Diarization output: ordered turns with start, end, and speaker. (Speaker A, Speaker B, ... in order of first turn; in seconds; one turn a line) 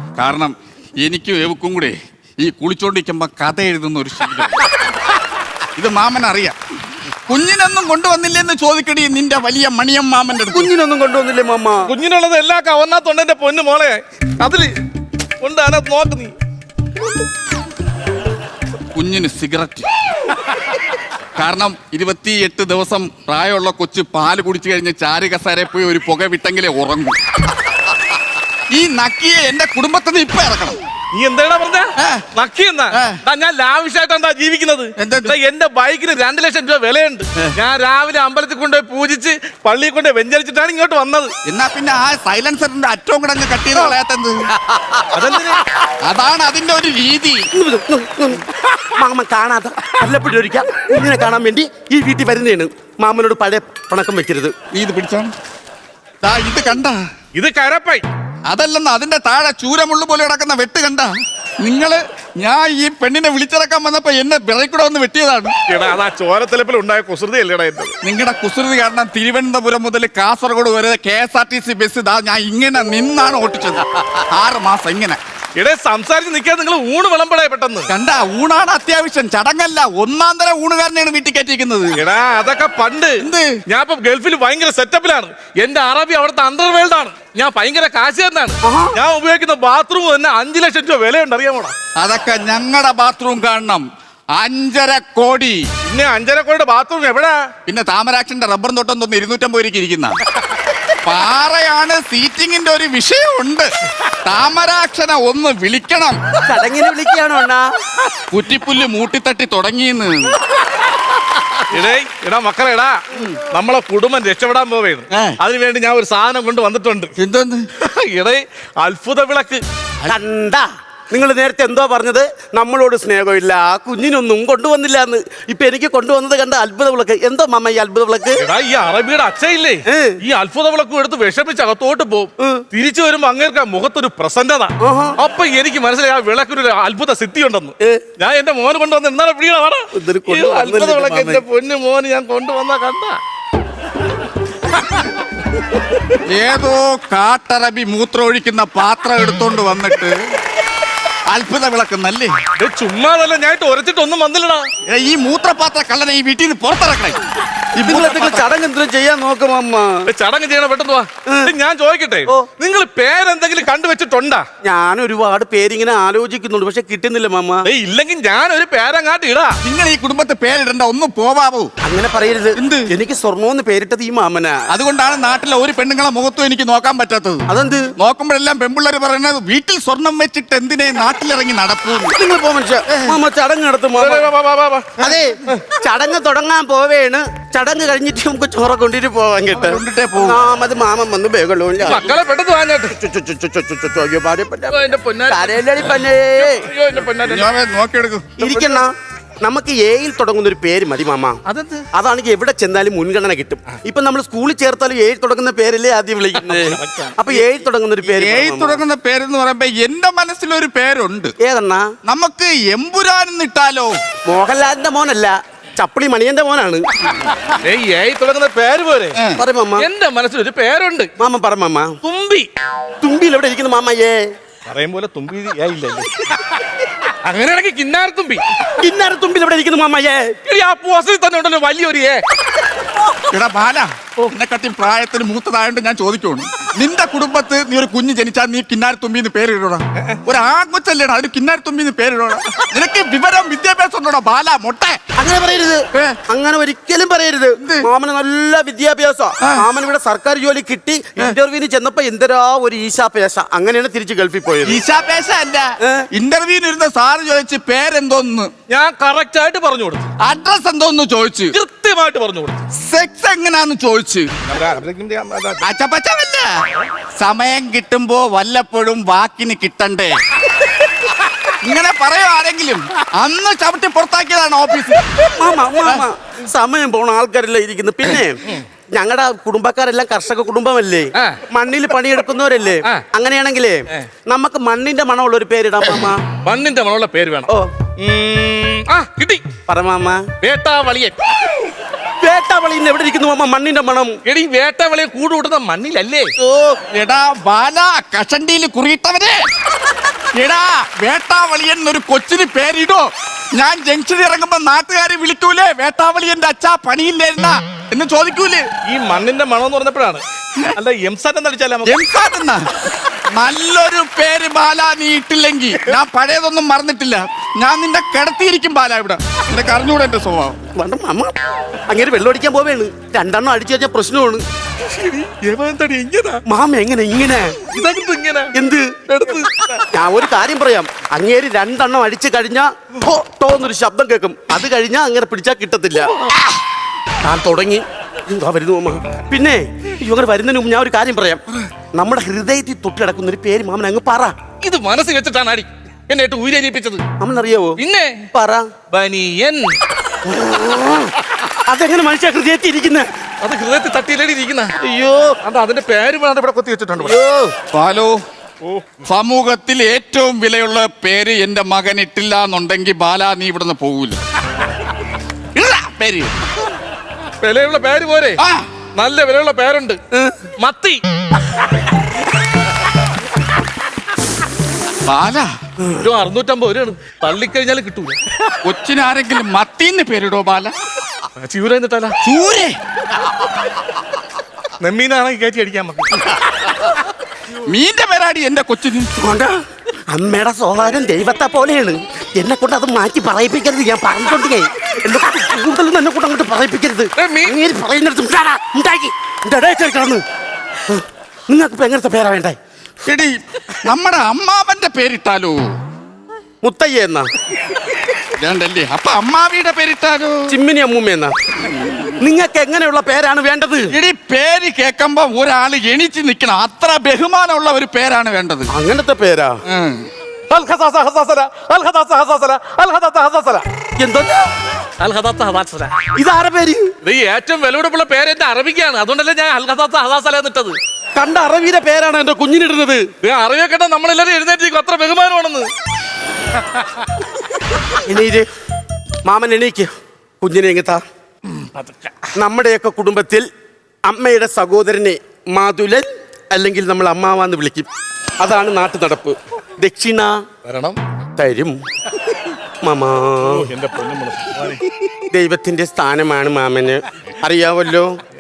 Speaker A: 0.2-4.7
Speaker A: 5.8-6.6
Speaker A: 7.3-10.7
Speaker B: 10.5-11.9
Speaker C: 11.9-14.7
Speaker C: 15.4-16.3
Speaker A: 18.9-19.9
Speaker A: 21.4-27.2
Speaker A: 28.7-30.8
Speaker C: 31.1-41.3
Speaker A: 32.0-32.3
Speaker A: 32.9-33.2
Speaker A: 35.0-35.4
Speaker A: 41.5-44.4
Speaker C: 45.1-45.6
Speaker A: 46.0-47.5
Speaker B: 47.5-54.5
Speaker A: 54.7-55.3
Speaker A: 56.2-57.0
Speaker C: 57.4-58.0
Speaker A: 58.5-65.5
Speaker C: 65.7-68.0
Speaker A: 68.0-75.2
Speaker C: 75.6-77.9
Speaker A: 77.9-82.0
Speaker C: 82.0-91.7
Speaker A: 83.2-83.6
Speaker B: 88.6-89.0
Speaker A: 92.0-95.7
Speaker C: 95.8-97.4
Speaker A: 97.7-100.2
Speaker A: 101.0-106.2
Speaker B: 106.5-107.7
Speaker A: 108.3-110.4
Speaker C: 111.7-117.1
Speaker A: 115.1-115.4
Speaker A: 117.2-117.7
Speaker C: 117.8-119.6
Speaker B: 120.0-128.4
Speaker C: 128.4-143.2
Speaker B: 129.9-130.2
Speaker B: 134.8-135.2
Speaker B: 139.9-141.4
Speaker A: 146.3-150.2
Speaker A: 151.3-152.3
Speaker C: 152.6-154.7
Speaker A: 154.9-157.2
Speaker B: 157.8-160.1
Speaker C: 158.0-158.2
Speaker C: 160.1-164.4
Speaker B: 161.3-161.5
Speaker B: 164.6-167.7
Speaker C: 167.7-169.6
Speaker A: 169.6-171.7
Speaker B: 171.8-174.6
Speaker A: 172.6-172.9
Speaker A: 174.7-182.2
Speaker B: 177.5-177.9
Speaker B: 182.1-184.3
Speaker A: 182.9-183.2
Speaker C: 184.0-185.0
Speaker B: 185.0-192.2
Speaker A: 189.5-190.4
Speaker C: 191.8-192.9
Speaker B: 192.9-196.7
Speaker C: 194.7-197.5
Speaker A: 197.2-198.7
Speaker B: 198.4-201.4
Speaker C: 201.5-201.9
Speaker B: 201.9-208.8
Speaker C: 206.3-207.5
Speaker A: 208.0-211.3
Speaker B: 211.4-211.9
Speaker A: 212.1-214.0
Speaker B: 214.3-216.9
Speaker C: 217.5-219.2
Speaker B: 219.3-219.9
Speaker C: 219.8-221.1
Speaker B: 221.2-222.0
Speaker C: 222.0-222.5
Speaker B: 223.0-224.3
Speaker C: 224.7-226.6
Speaker C: 227.2-228.5
Speaker B: 228.8-230.3
Speaker C: 230.5-232.2
Speaker A: 233.3-245.0
Speaker B: 245.2-254.8
Speaker A: 245.9-246.2
Speaker A: 247.6-247.9
Speaker A: 254.7-258.5
Speaker C: 258.7-260.1
Speaker A: 260.2-261.6
Speaker C: 261.5-262.6
Speaker A: 262.8-264.3
Speaker C: 264.5-265.6
Speaker A: 265.6-266.5
Speaker A: 267.2-270.1
Speaker A: 271.6-275.1
Speaker B: 275.4-286.2
Speaker C: 286.4-289.4
Speaker B: 289.7-290.3
Speaker C: 290.4-291.1
Speaker B: 292.2-294.2
Speaker C: 294.2-296.3
Speaker B: 296.4-296.8
Speaker A: 296.9-299.4
Speaker A: 300.4-308.7
Speaker C: 308.9-310.2
Speaker C: 310.8-312.0
Speaker A: 311.8-320.6
Speaker B: 320.8-321.4
Speaker B: 321.9-324.4
Speaker C: 324.8-326.4
Speaker B: 326.5-327.6
Speaker C: 327.7-328.6
Speaker B: 328.5-329.0
Speaker C: 329.1-329.9
Speaker B: 329.9-336.1
Speaker C: 336.2-336.5
Speaker B: 337.2-341.4
Speaker B: 341.9-344.4
Speaker C: 344.6-347.0
Speaker B: 347.2-347.8
Speaker C: 347.8-348.3
Speaker B: 348.3-348.7
Speaker C: 348.9-349.7
Speaker B: 350.2-351.1
Speaker B: 351.7-353.1
Speaker C: 353.4-354.8
Speaker B: 354.8-355.4
Speaker C: 355.4-357.2
Speaker B: 357.0-357.6
Speaker A: 357.7-358.2
Speaker A: 359.1-364.2
Speaker A: 365.6-366.4
Speaker C: 367.4-368.4
Speaker A: 368.4-368.7
Speaker C: 368.9-370.0
Speaker B: 370.1-370.4
Speaker C: 370.6-371.0
Speaker A: 375.0-375.5
Speaker B: 375.8-376.1
Speaker C: 376.0-378.3
Speaker A: 378.6-380.7
Speaker C: 381.4-382.2
Speaker A: 382.2-382.8
Speaker C: 384.8-386.4
Speaker A: 387.6-389.2
Speaker B: 389.2-389.6
Speaker B: 390.1-400.2
Speaker C: 397.2-397.6
Speaker B: 400.9-402.6
Speaker A: 403.1-405.6
Speaker B: 406.6-407.3
Speaker A: 408.4-410.5
Speaker B: 410.5-411.3
Speaker A: 411.7-412.2
Speaker B: 412.2-413.9
Speaker A: 413.9-418.7
Speaker B: 418.7-419.6
Speaker A: 419.7-420.1
Speaker C: 420.5-423.6
Speaker B: 424.0-424.4
Speaker C: 425.0-426.1
Speaker B: 426.1-426.9
Speaker C: 427.0-430.8
Speaker B: 431.2-433.1
Speaker C: 433.2-435.7
Speaker B: 437.9-438.5
Speaker B: 439.2-439.9
Speaker B: 440.4-441.0
Speaker C: 441.6-442.3
Speaker B: 442.4-443.5
Speaker B: 444.1-447.9
Speaker B: 448.4-450.4
Speaker C: 450.6-451.0
Speaker B: 451.4-451.8
Speaker B: 452.8-453.7
Speaker C: 453.4-454.8
Speaker B: 455.3-458.1